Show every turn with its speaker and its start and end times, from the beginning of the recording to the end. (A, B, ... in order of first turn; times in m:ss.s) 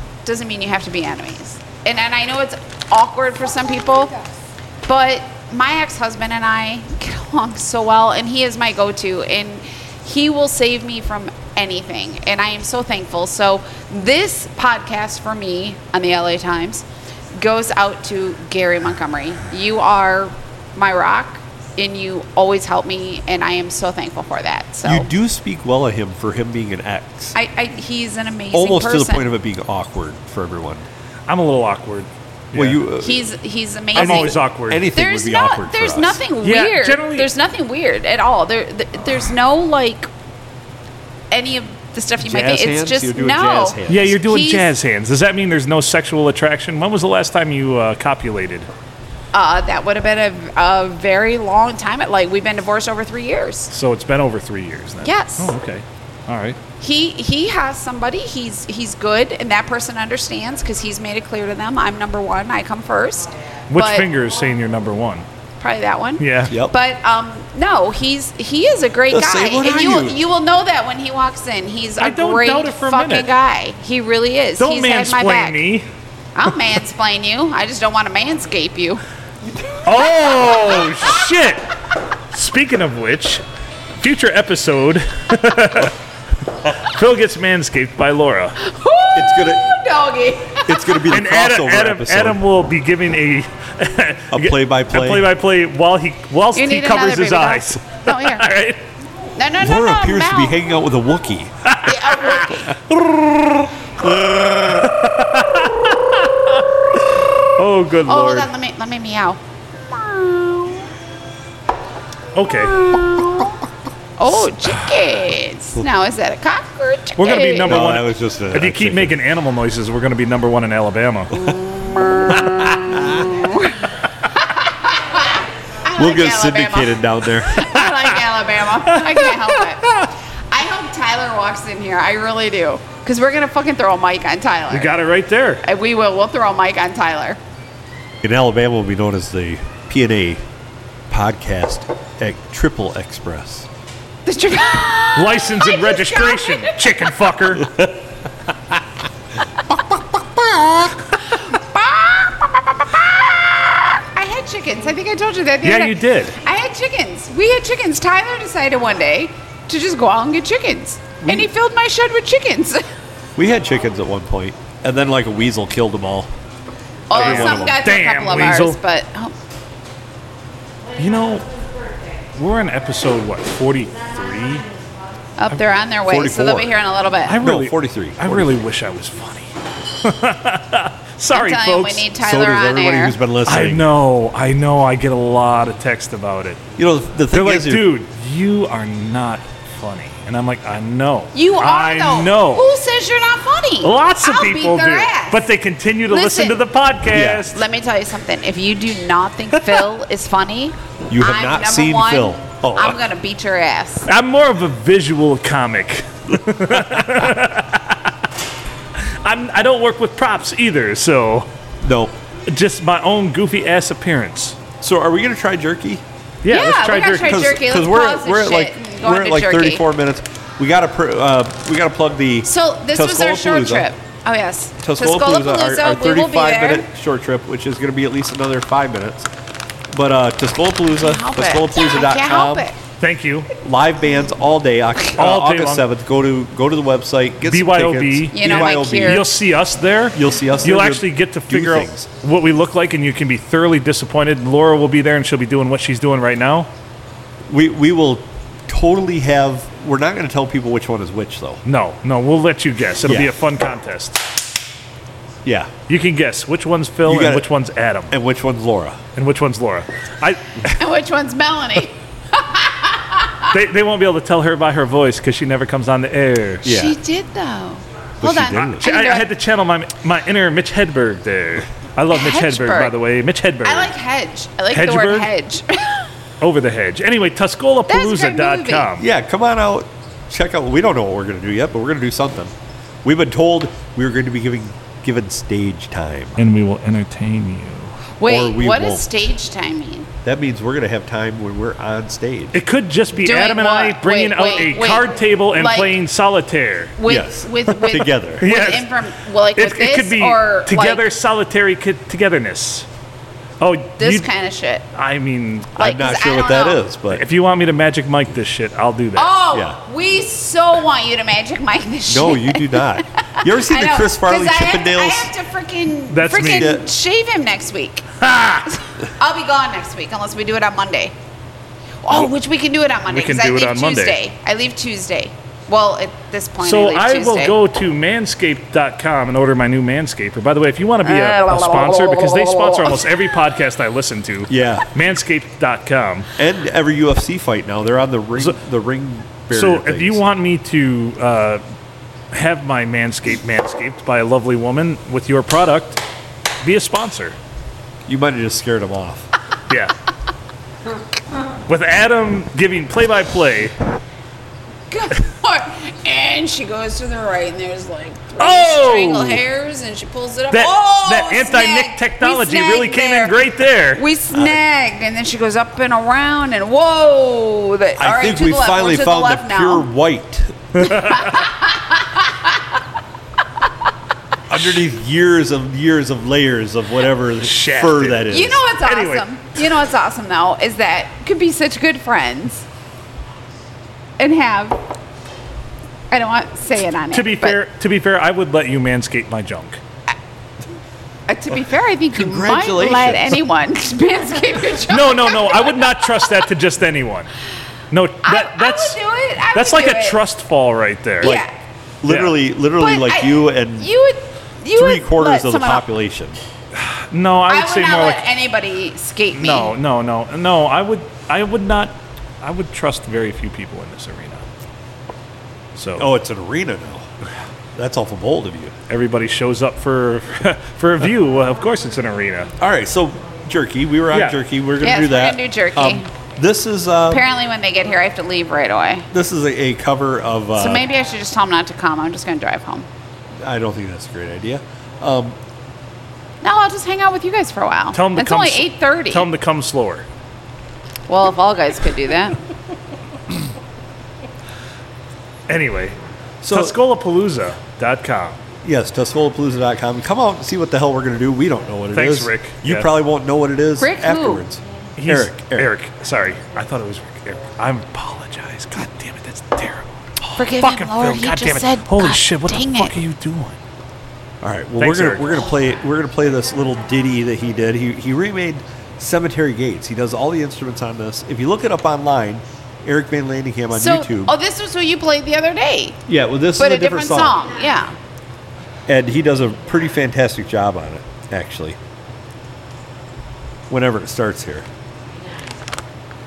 0:00.2-0:04.2 A
0:04.8-0:25.1 A
0:24.8-0:27.3 B
0:27.3-0:29.3 A
0:28.5-0:30.9 B
0:31.3-0:32.8 C
0:32.5-0:33.3 B
0:33.0-0:34.4 A
0:33.9-0:34.9 C
0:33.9-0:36.2 B
0:34.9-0:40.1 A
0:36.4-0:37.3 C
0:41.3-0:44.7 A
0:42.2-0:44.2 B
0:43.9-0:48.7 C
0:49.3-0:53.7 A
0:53.7-0:56.6 C
0:55.0-0:55.5 A
0:56.8-1:04.1 A
1:03.7-1:05.3 C
1:05.6-1:15.6 A
1:06.2-1:06.5 C
1:06.5-1:06.7 B
1:09.1-1:10.2 B
1:12.0-1:13.3 C
1:14.6-1:15.9 C
1:16.4-1:19.0 A
1:19.8-1:21.6 C
1:22.3-1:23.4 C
1:24.0-1:25.9 C
1:26.7-1:28.6 C
1:28.6-1:31.0 A
1:29.1-1:29.7 B
1:30.6-1:32.4 B
1:31.1-1:38.8 C
1:34.3-1:35.3 B
1:36.6-1:38.4 A
1:39.4-1:40.6 A
1:39.6-1:41.5 B
1:41.6-1:43.7 C
1:41.9-1:42.8 A
1:44.0-1:44.9 B
1:44.7-1:46.6 C
1:47.4-1:48.5 C
1:48.1-1:50.9 A
1:52.4-1:52.9 C
1:52.5-1:53.6 A
1:54.2-1:57.8 A
1:57.2-2:01.4 C
1:57.6-1:59.2 B
2:01.3-2:15.0 A
2:06.0-2:07.8 B
2:08.9-2:10.0 C
2:14.7-2:15.6 C
2:15.6-2:17.4 A
2:18.2-2:20.4 B
2:21.1-2:23.7 B
2:24.2-2:27.3 A
2:25.1-2:27.8 C
2:30.5-2:30.9 C
2:31.2-2:42.8 A
2:35.6-2:36.4 C
2:41.2-2:41.5 B
2:43.4-2:46.3 B
2:47.1-2:49.3 A
2:47.1-2:47.8 B
2:47.1-2:48.8 C
2:51.0-2:51.4 C
2:52.4-2:54.6 C
2:55.4-2:57.4 A
2:56.1-2:56.8 B
2:57.3-3:02.1 C
2:57.4-2:58.6 B
3:01.3-3:03.2 A
3:02.2-3:03.9 B
3:03.4-3:06.6 C
3:06.8-3:07.9 B
3:07.3-3:12.7 C
3:11.3-3:15.4 A
3:13.8-3:17.6 C
3:16.1-3:16.6 A
3:17.1-3:17.5 B
3:17.5-3:24.1 A
3:21.1-3:23.0 B
3:24.1-3:28.0 C
3:29.0-3:31.5 C
3:31.8-3:32.1 B
3:32.5-3:34.6 C
3:34.8-3:36.0 B
3:36.4-3:37.4 C
3:36.5-3:39.8 A
3:37.2-3:43.9 B
3:42.4-3:46.9 A
3:44.8-3:49.3 B
3:49.9-3:52.7 B
3:51.0-3:52.8 A
3:53.0-3:53.5 C
3:53.6-3:59.2 B
3:55.1-3:55.9 C
3:57.5-4:06.7 C
3:58.3-3:59.3 A
4:00.1-4:02.1 B
4:07.5-4:11.6 B
4:11.7-4:14.2 C
4:13.0-4:13.3 B
4:15.4-4:15.7 B
4:15.9-4:18.1 C
4:17.0-4:17.5 B
4:18.1-4:19.0 B
4:19.1-4:20.7 C
4:20.7-4:23.5 A
4:23.5-4:26.7 C
4:26.6-4:27.0 B
4:26.7-4:29.3 A
4:28.2-4:28.9 B
4:28.7-4:33.9 C
4:32.1-4:32.9 A
4:33.6-4:36.1 A
4:34.7-4:35.3 C
4:36.4-4:39.0 C
4:37.9-4:38.9 A
4:39.0-4:42.5 B
4:43.0-4:46.4 B
4:46.4-4:48.0 C
4:48.2-4:50.1 A
4:48.2-4:49.1 B
4:50.2-4:52.6 B
4:52.5-4:57.0 C
4:53.2-4:55.9 A
4:57.0-5:01.0 A
4:57.0-4:58.4 B
4:57.9-4:59.0 C
4:59.6-5:02.9 C
5:03.6-5:04.3 C
5:04.0-5:04.8 A
5:04.9-5:05.7 C
5:05.8-5:06.8 A
5:05.8-5:07.2 B
5:07.1-5:09.3 C
5:09.2-5:18.1 A
5:09.5-5:09.8 B
5:12.1-5:15.3 B
5:16.1-5:16.8 C
5:16.4-5:16.8 B
5:18.2-5:18.7 C
5:19.2-5:21.1 A
5:22.0-5:27.6 A
5:23.1-5:24.2 C
5:26.6-5:36.3 C
5:31.0-5:33.0 A
5:34.5-5:34.9 B
5:36.4-5:40.2 B
5:39.5-5:41.6 C
5:42.3-5:46.0 C
5:46.6-5:47.4 C
5:48.0-5:49.3 B
5:49.7-5:49.9 C
5:51.7-5:53.7 C
5:54.9-6:09.9 A
5:58.4-5:59.4 C
6:00.5-6:04.0 C
6:08.0-6:10.7 B
6:10.8-6:11.4 C
6:10.8-6:12.6 A
6:14.5-6:18.6 B
6:17.4-6:18.3 C
6:18.3-6:22.7 A
6:18.8-6:19.2 C
6:24.2-6:24.8 A
6:26.1-6:27.6 A
6:27.1-6:29.8 C
6:31.3-6:36.0 A
6:32.1-6:33.4 B
6:34.9-6:37.3 C
6:37.9-6:39.0 C
6:38.2-6:40.2 A
6:39.5-6:41.4 C
6:41.2-6:41.5 A
6:42.0-6:43.9 B
6:42.0-6:42.4 C
6:42.8-6:45.9 A
6:44.7-6:46.4 B
6:46.8-6:48.3 C
6:47.5-6:49.8 A
6:49.3-6:54.4 C
6:55.8-6:56.1 C
6:56.0-6:57.0 B
6:57.8-6:58.7 B
6:58.9-7:02.5 C
7:02.6-7:07.2 B
7:04.1-7:04.4 C
7:04.8-7:06.1 A
7:07.1-7:09.1 A
7:09.1-7:10.9 B
7:10.6-7:12.9 A
7:13.4-7:15.4 B
7:16.4-7:19.3 A
7:17.9-7:20.0 C
7:21.1-7:22.4 A
7:25.5-7:26.0 C
7:26.4-7:26.8 B
7:26.5-7:28.4 C
7:28.6-7:35.7 B
7:31.9-7:32.9 C
7:33.8-7:34.4 A
7:35.0-7:43.6 C
7:40.4-7:43.0 A
7:44.4-7:54.4 B
7:44.8-7:45.3 C
7:53.7-7:56.0 A
7:56.1-7:57.4 B
7:56.6-7:58.0 A
7:58.9-8:01.8 B
8:03.7-8:04.7 B